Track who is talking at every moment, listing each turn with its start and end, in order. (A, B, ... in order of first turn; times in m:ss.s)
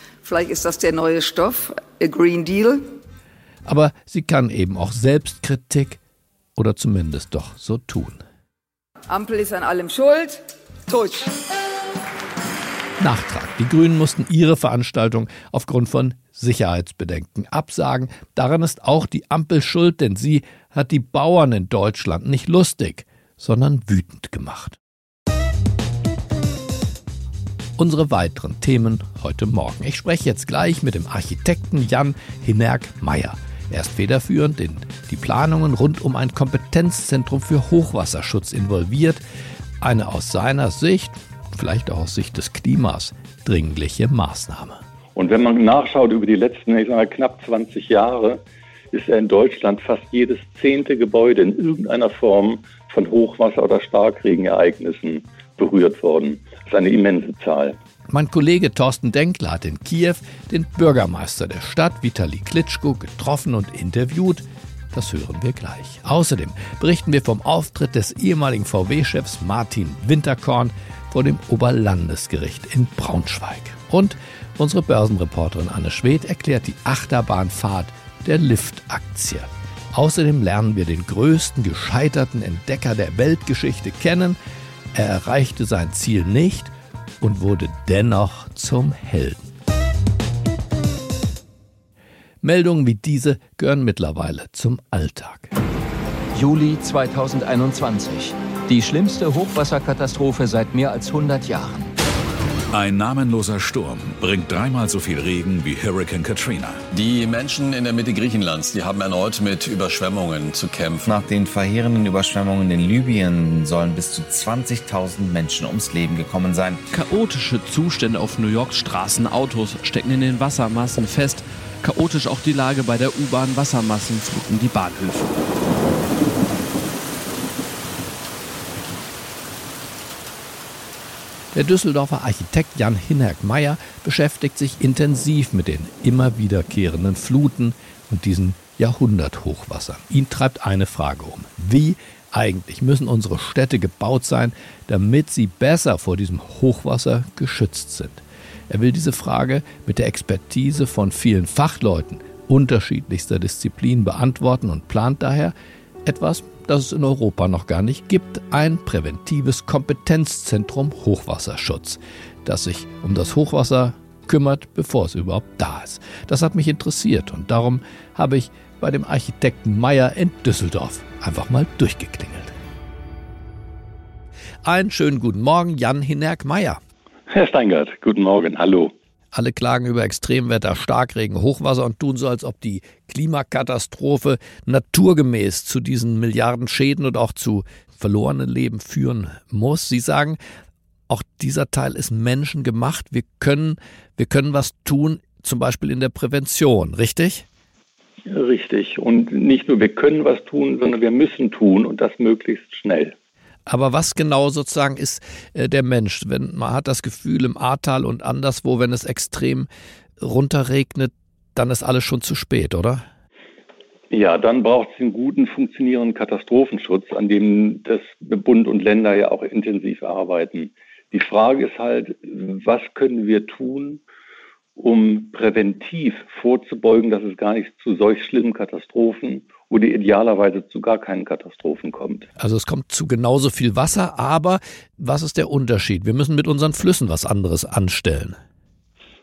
0:00.2-0:02.9 A
0:03.7-0:06.0 B
0:06.6-0:08.2 B
0:09.1-0:11.3 A
0:13.0-0:24.8 B
0:27.8-0:39.2 B
0:39.8-0:44.8 B
0:45.2-0:57.8 C
0:58.1-1:24.4 B
1:24.9-1:29.4 B
1:32.4-1:35.5 B
1:36.4-1:41.9 D
1:42.7-1:46.8 E
1:46.9-1:51.1 F
1:51.1-1:56.8 G
1:56.9-2:05.3 H
2:11.5-2:35.5 B
2:36.0-2:52.5 B
2:54.6-2:56.8 B
2:57.3-2:58.9 C
2:59.3-3:10.4 B
3:11.1-3:17.5 B
3:18.3-3:23.2 C
3:23.7-3:29.7 B
3:30.2-3:33.0 B
3:34.1-3:44.0 C
3:44.8-3:52.3 C
3:52.4-3:58.4 B